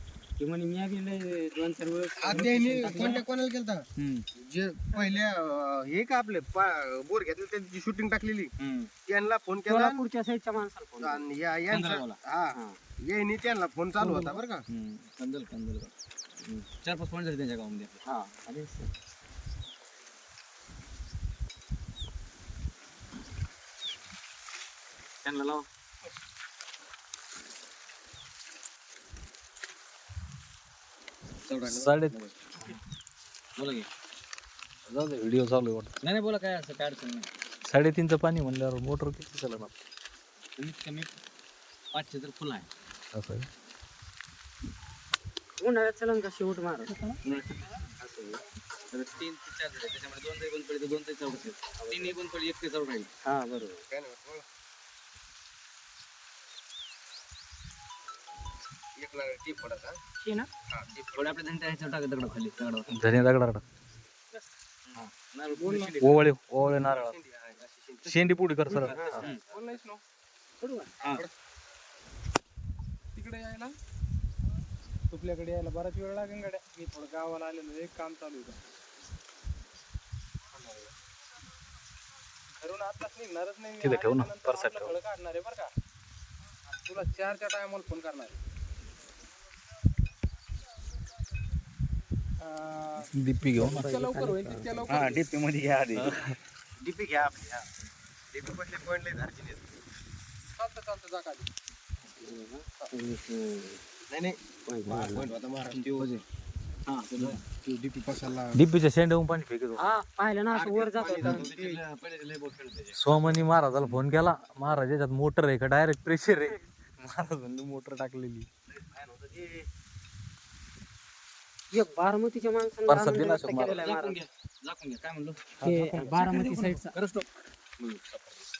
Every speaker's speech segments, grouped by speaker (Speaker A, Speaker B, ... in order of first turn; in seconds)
Speaker A: 0.4-3.2, 9.7-11.2, 18.1-18.9, 45.6-47.0, 48.0-48.4, 51.8-52.2, 53.2-53.8, 68.7-69.3, 70.6-70.9, 93.5-95.0, 102.2-103.8, 104.7-105.3, 109.8-111.4, 121.7-124.2, 125.6-126.9
Speaker B: 2.2-3.8, 4.4-8.5, 9.1-10.0, 11.0-12.6, 13.1-14.6, 53.9-54.4, 59.0-60.0, 60.7-61.3, 66.9-68.2, 69.0-69.6, 96.8-97.6, 98.3-99.6, 104.1-106.1, 107.4-108.6, 110.5-111.8
Speaker C: 2.4-3.2, 4.0-4.2, 8.6-8.9, 11.7-12.2, 14.7-15.9, 16.4-18.0, 25.2-25.6, 31.4-32.7, 33.6-33.9, 36.0-37.3, 40.6-41.1, 41.9-42.7, 47.2-47.6, 48.9-53.1, 61.0-63.0, 64.9-66.3, 68.8-69.4, 94.9-96.1, 105.7-106.2, 106.9-107.4, 111.0-113.3, 118.7-119.7, 123.5-125.5, 126.9-127.2, 127.8-128.4
Speaker D: 31.6-32.2, 34.9-35.9, 37.7-39.7, 43.1-43.5, 62.9-63.6, 66.0-67.1, 68.0-69.0, 83.8-84.9, 93.1-93.9, 96.0-96.3, 108.5-109.8, 113.0-118.5, 122.9-123.8, 125.6-125.9
Speaker E: 65.6-65.9, 69.5-70.0, 73.2-73.7, 75.1-78.6, 80.5-80.9, 82.6-85.7, 86.7-88.3, 92.4-93.1, 93.8-95.2, 100.6-101.5